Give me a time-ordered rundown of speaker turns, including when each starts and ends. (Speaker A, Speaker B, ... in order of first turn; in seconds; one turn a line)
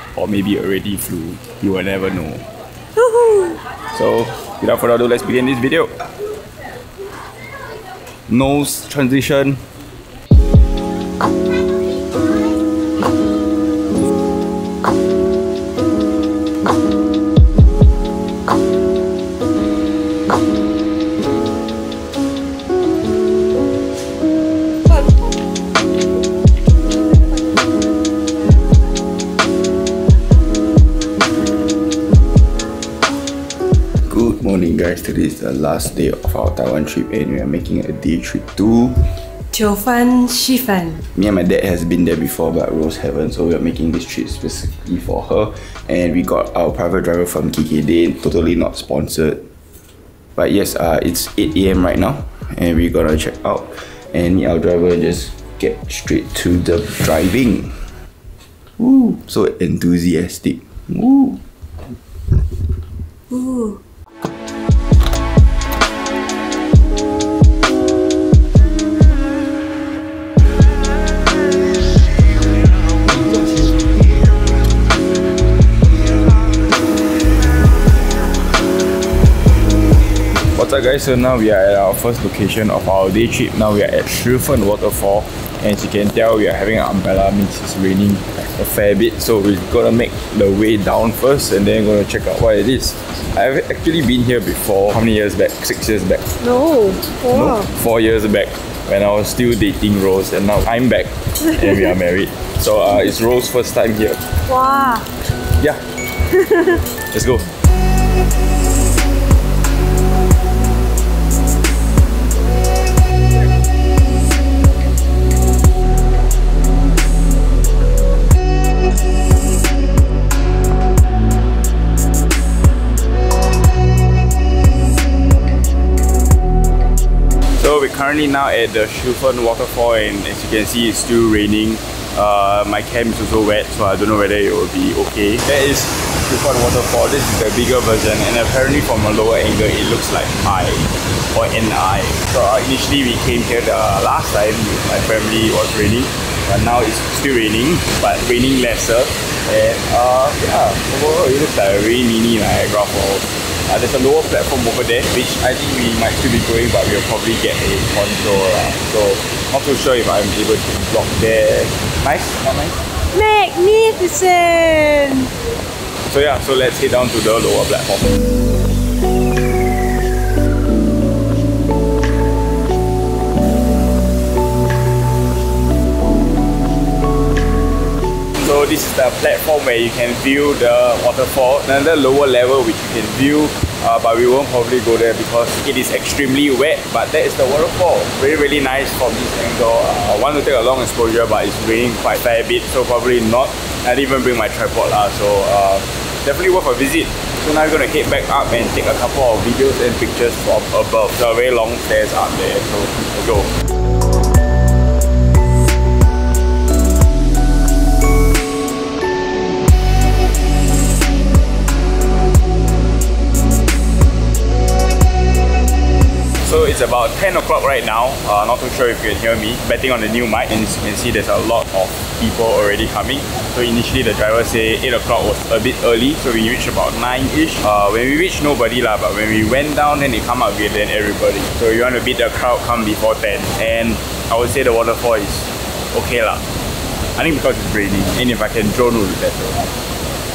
Speaker A: 0.1-2.5
Speaker B: 3.0-3.6
Speaker A: 3.9-5.9
Speaker A: 8.3-9.6
Speaker A: 34.0-39.1
Speaker B: 39.5-41.0
Speaker A: 41.1-49.5
Speaker A: 50.4-58.0
Speaker A: 58.8-61.4
Speaker B: 63.3-63.8
Speaker A: 80.5-96.3
Speaker B: 96.4-97.7
Speaker A: 97.3-104.2
Speaker B: 104.5-105.1
Speaker A: 105.6-105.8
Speaker A: 107.1-107.5
Speaker A: 127.6-162.8
Speaker B: 163.1-165.3
Speaker A: 166.1-168.2
Speaker A: 178.3-203.5
Speaker A: 216.4-236.4
Speaker A: 237.2-239.7